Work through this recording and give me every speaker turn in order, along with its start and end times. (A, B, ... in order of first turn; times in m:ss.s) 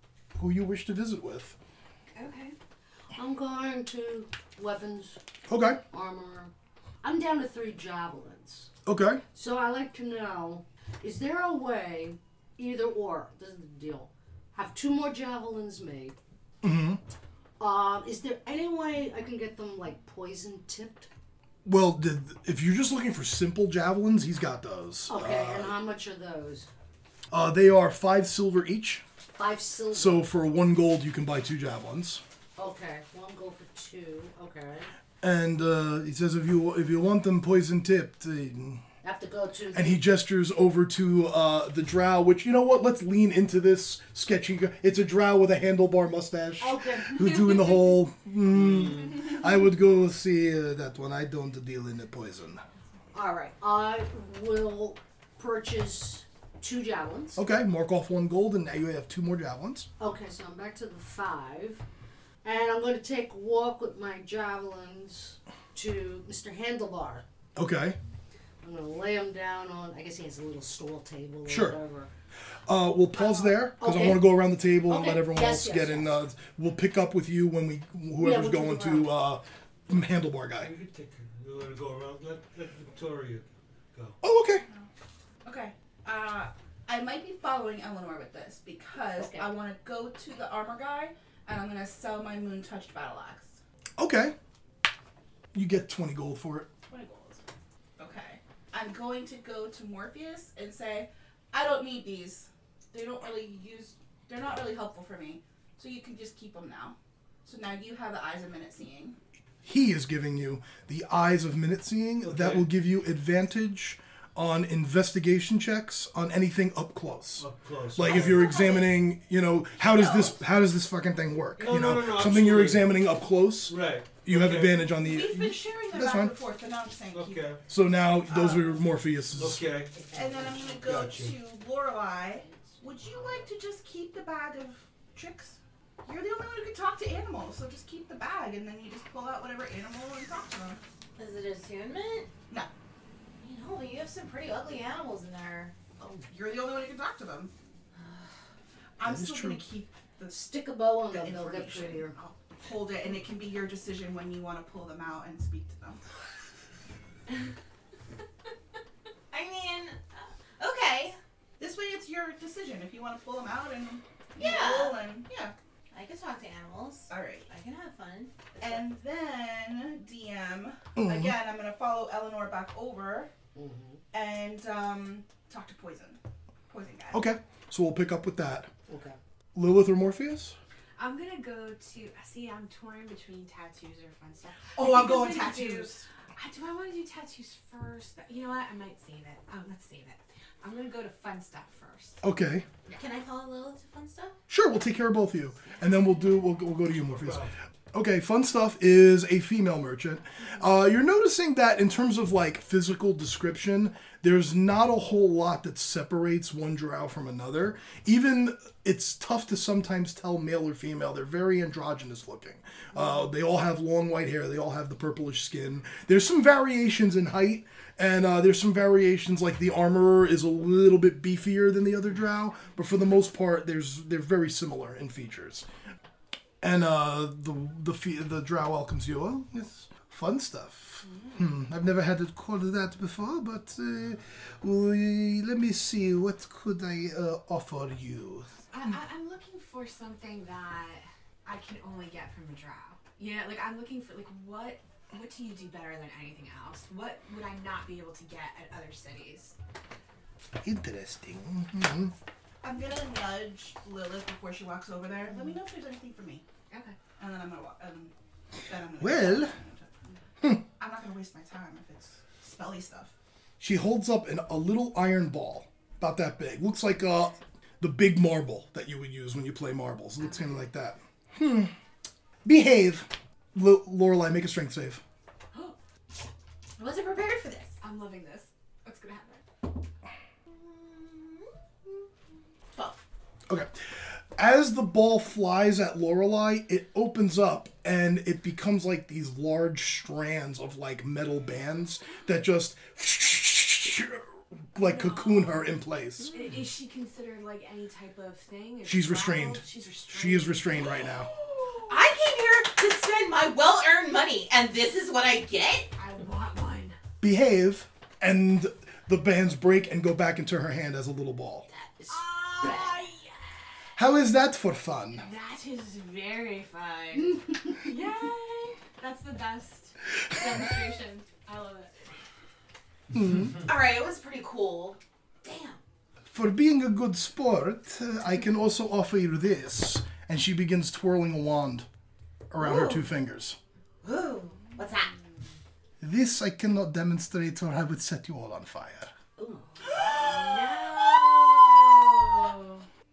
0:00.4-0:01.6 A
0:02.1-0:02.5 B
0:03.1-0:05.2 C
0:05.5-0:05.8 A
0:05.9-0:08.7 C
0:08.8-0:09.2 A
0:09.3-0:16.2 C
0:16.6-0:17.0 A
0:17.6-0:21.1 C
0:21.6-0:25.7 A
0:25.1-0:26.7 C
0:27.3-0:29.0 A
0:29.4-0:30.3 C
0:29.9-0:32.2 A
0:32.6-0:34.9 C
0:35.2-0:38.8 A
0:39.0-0:40.0 C
0:39.7-0:52.6 A
0:46.6-0:47.8 C
0:48.5-0:49.1 D
0:53.1-0:57.4 C
0:57.4-0:59.9 A
1:00.0-1:01.8 C
1:02.4-1:07.2 C
1:07.6-1:08.0 A
1:08.6-1:12.1 C
1:11.4-1:11.8 A
1:12.6-1:20.7 A
1:13.7-1:16.2 C
1:18.2-1:19.1 C
1:20.6-1:24.2 D
1:24.2-1:24.6 A
1:24.6-1:24.9 E
1:25.4-1:33.6 E
1:34.0-1:34.3 A
1:35.5-1:36.7 A
1:36.9-1:37.4 E
1:38.0-1:49.2 E
1:49.6-2:06.3 A
1:52.2-1:52.7 D
1:57.4-1:58.6 D
1:58.1-1:59.0 E
1:59.8-2:00.4 E
2:01.6-2:03.0 D
2:03.6-2:04.9 D
2:04.8-2:07.5 E
2:07.1-2:07.6 D
2:07.7-2:09.6 A
2:08.3-2:08.8 E
2:09.3-2:10.1 D
2:10.1-2:20.8 E
2:10.7-2:11.4 D
2:21.2-2:22.3 F
2:23.4-2:25.7 F
2:26.3-2:27.5 E
2:28.0-2:28.2 F
2:29.0-2:30.5 E
2:29.0-2:29.6 A
2:30.3-2:32.1 C
2:31.0-2:36.0 E
2:39.3-2:41.2 F
2:41.6-2:45.5 E
2:44.4-2:45.0 F
2:45.9-2:48.8 F
2:47.1-2:47.5 E
2:48.6-2:53.3 E
2:51.0-2:51.3 A
2:53.5-2:54.0 C
2:54.1-2:57.2 E
2:57.1-2:58.7 A
2:58.9-2:59.2 C
2:59.5-3:00.6 A
3:01.0-3:12.2 B
3:04.8-3:06.0 E
3:12.2-3:12.6 A
3:12.9-3:14.4 F
3:14.5-3:45.6 A
3:17.1-3:17.5 D
3:46.6-3:58.5 A
3:51.0-3:51.5 B
3:58.7-4:09.5 B
4:10.6-4:12.1 A
4:12.6-4:16.4 E
4:16.7-4:17.0 B
4:17.2-4:18.1 E
4:18.6-4:20.2 E
4:19.0-4:19.5 A
4:20.8-4:23.1 E
4:23.6-4:31.7 A
4:30.2-4:30.6 B
4:32.4-4:35.0 A
4:36.8-4:37.8 F
4:37.8-4:39.4 B
4:40.5-4:42.0 F
4:42.7-4:43.0 F
4:43.5-4:56.3 A
4:54.8-4:55.7 B
4:56.3-5:01.9 B
4:58.8-5:01.3 A
4:59.7-5:00.0 F
5:00.8-5:01.0 F
5:01.8-5:05.9 F
5:06.0-5:07.0 B
5:07.2-5:11.6 A
5:12.1-5:13.5 B
5:12.6-5:12.8 F
5:14.0-5:15.3 A
5:15.1-5:22.1 B
5:23.1-5:23.6 A
5:23.6-5:25.8 F
5:26.2-5:31.8 A
5:32.5-5:33.6 A
5:32.6-5:33.1 F
5:34.0-5:35.1 F
5:36.0-5:39.1 A
5:39.4-5:42.4 F
5:40.0-5:42.8 B